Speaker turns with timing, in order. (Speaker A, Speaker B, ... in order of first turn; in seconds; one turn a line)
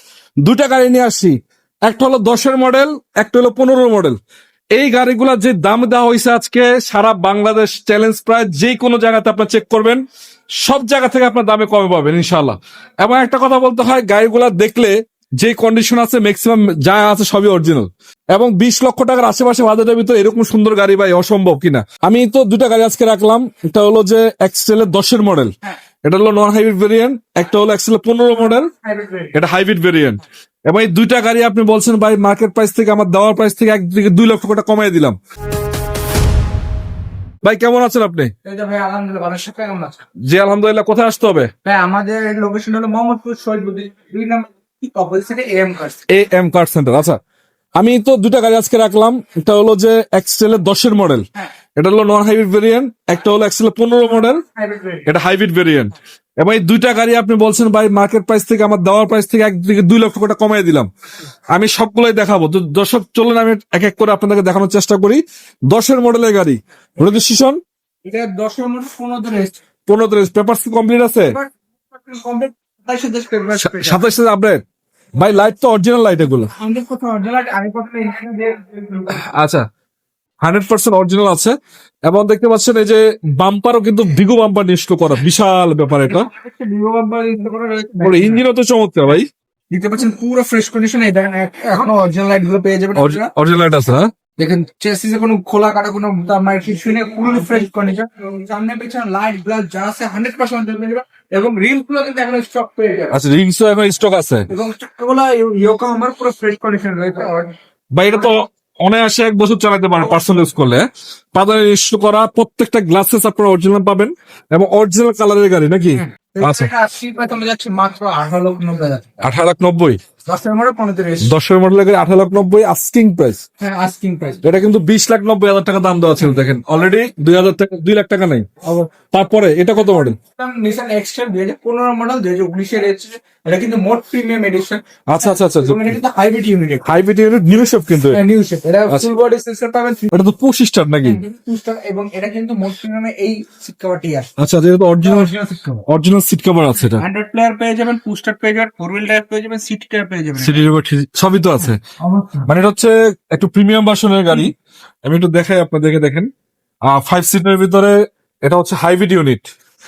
Speaker A: 0.4-4.2
Speaker A: 4.7-10.0
Speaker A: 10.6-28.7
Speaker B: 28.7-29.3
Speaker A: 29.3-35.2
Speaker A: 37.4-38.3
Speaker B: 38.4-40.0
Speaker A: 40.2-41.5
Speaker B: 41.6-46.0
Speaker A: 46.1-47.2
Speaker A: 47.8-54.4
Speaker B: 54.5-55.1
Speaker A: 55.0-60.9
Speaker A: 61.5-67.6
Speaker B: 68.0-69.6
Speaker A: 69.8-71.3
Speaker B: 71.3-74.0
Speaker A: 73.6-74.6
Speaker A: 75.2-76.5
Speaker B: 76.5-79.2
Speaker A: 79.1-79.6
Speaker A: 80.4-86.3
Speaker B: 86.1-88.4
Speaker A: 88.0-89.3
Speaker B: 89.7-93.3
Speaker A: 93.0-94.1
Speaker B: 94.4-103.1
Speaker A: 103.1-104.5
Speaker B: 104.5-107.5
Speaker A: 107.9-116.7
Speaker B: 116.1-119.0
Speaker A: 119.2-120.0
Speaker B: 120.2-121.3
Speaker A: 121.2-123.4
Speaker B: 123.6-124.4
Speaker A: 124.4-128.5
Speaker B: 128.6-128.9
Speaker A: 129.1-130.2
Speaker B: 129.8-136.9
Speaker A: 135.1-135.9
Speaker A: 136.8-138.2
Speaker B: 138.1-140.1
Speaker A: 140.1-141.2
Speaker B: 141.0-144.3
Speaker A: 144.4-145.3
Speaker B: 145.0-145.8
Speaker A: 145.8-147.0
Speaker B: 146.8-150.7
Speaker A: 150.4-151.8
Speaker B: 152.0-152.5
Speaker A: 152.4-154.5
Speaker A: 155.0-156.3
Speaker A: 156.9-159.5